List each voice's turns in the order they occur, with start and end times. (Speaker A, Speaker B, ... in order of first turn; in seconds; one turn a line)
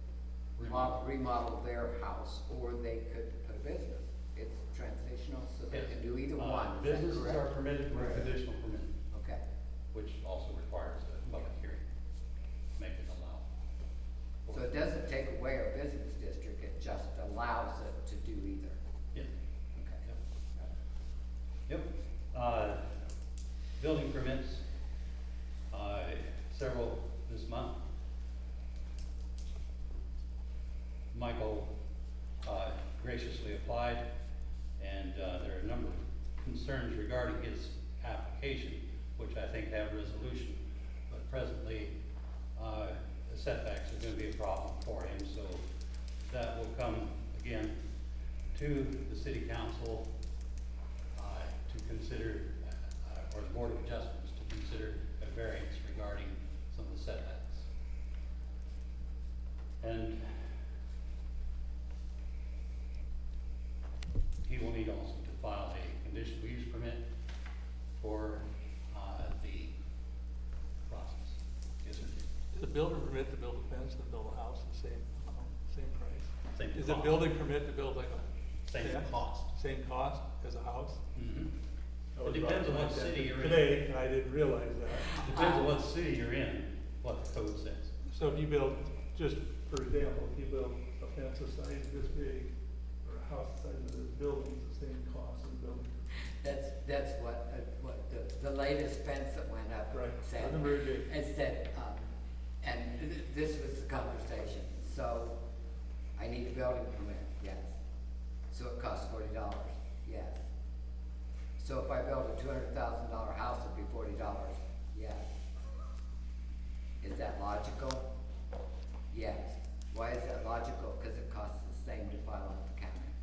Speaker A: 0.6-0.9
Speaker B: 0.6-8.3
Speaker A: 5.7-8.9
Speaker B: 9.1-9.4
Speaker A: 9.9-11.8
Speaker A: 12.8-13.4
Speaker B: 14.5-18.8
Speaker B: 19.8-20.7
Speaker A: 21.7-22.8
Speaker A: 23.8-24.6
Speaker A: 25.7-27.8
Speaker A: 31.1-31.7
Speaker A: 32.4-34.0
Speaker A: 34.8-41.9
Speaker A: 42.6-45.6
Speaker A: 46.2-47.8
Speaker A: 48.5-50.1
Speaker A: 51.2-57.7
Speaker A: 59.8-60.6
Speaker A: 64.4-67.0
Speaker A: 68.0-69.7
Speaker A: 70.8-72.3
Speaker C: 72.5-78.3
Speaker A: 76.5-77.3
Speaker A: 78.7-79.5
Speaker C: 78.8-81.0
Speaker A: 81.1-81.5
Speaker C: 82.2-85.6
Speaker A: 82.2-83.7
Speaker A: 85.1-87.9
Speaker C: 88.1-92.5
Speaker C: 93.0-95.9
Speaker B: 96.4-102.1
Speaker C: 99.9-101.1
Speaker B: 102.6-105.3
Speaker B: 106.2-107.8
Speaker B: 108.5-110.4
Speaker B: 111.6-115.2
Speaker B: 117.0-118.0
Speaker B: 119.1-123.1